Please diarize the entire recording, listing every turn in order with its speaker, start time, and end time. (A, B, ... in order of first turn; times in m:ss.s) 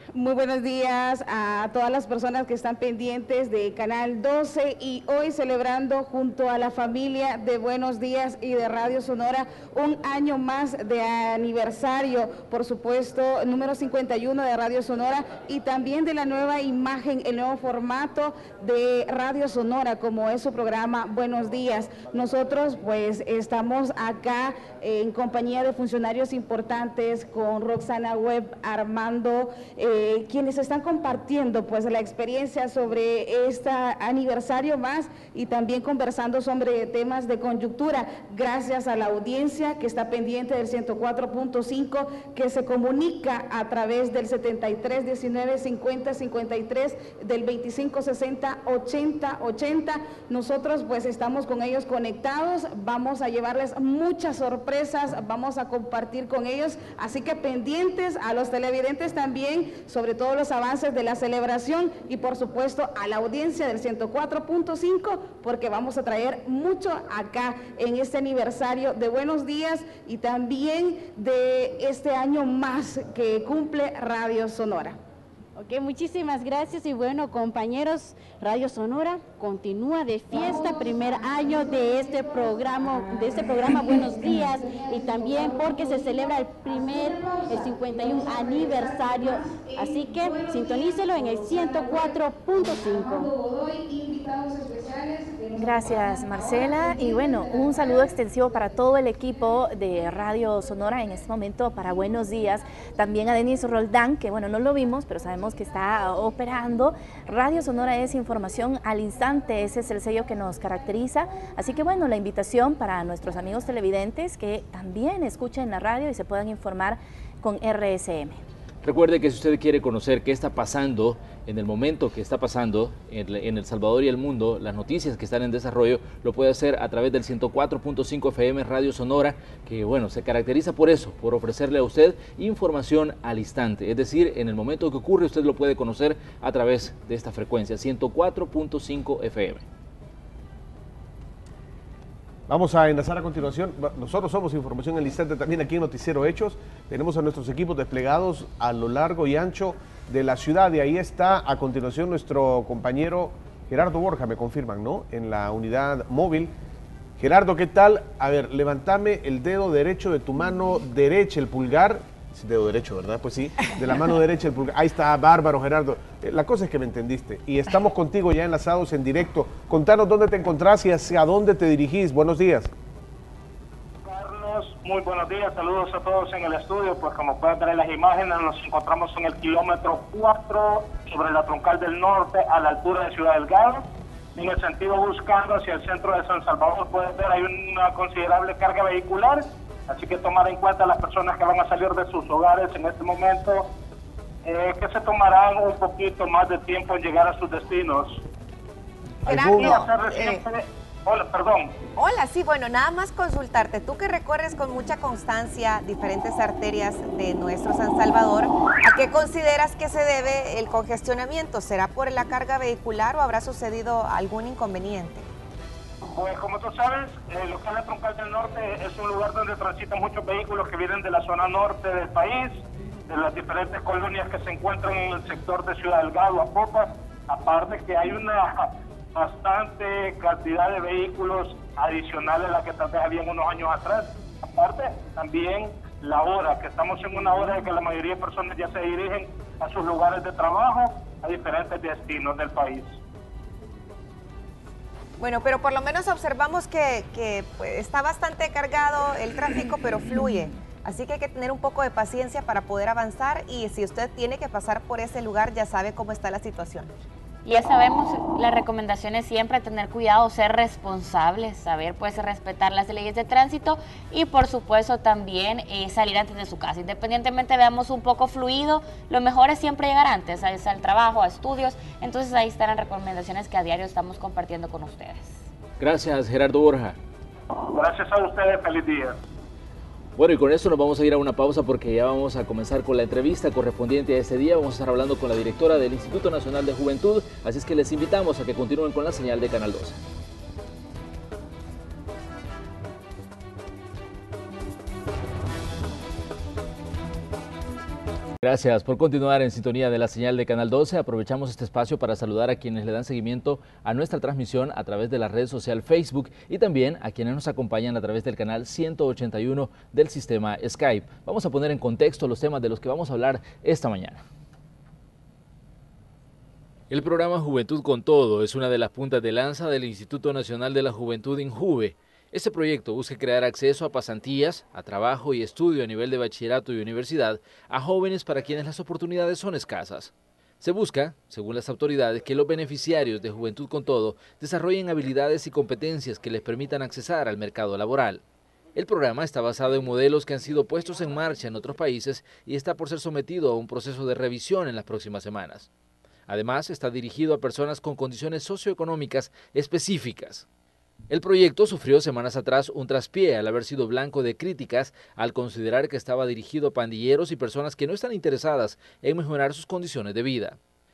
0:00.2-1:14.9 A
1:15.6-1:33.4 B
1:35.5-1:58.4 C
1:58.8-2:19.6 D
2:22.5-2:36.5 E
2:37.2-2:52.7 E
2:54.0-3:13.7 F
3:14.4-3:18.2 F
3:19.2-3:20.4 G
3:19.3-3:21.7 F
3:22.0-3:35.3 G
3:36.2-4:03.0 F
4:05.2-4:16.9 G
4:17.5-4:35.4 H
4:35.8-4:37.0 D
4:37.7-4:39.2 F
4:40.2-4:50.0 D
4:58.4-5:14.2 D
5:16.9-5:38.2 D
5:38.8-5:45.7 D
5:46.3-5:50.5 D
5:51.1-6:00.6 D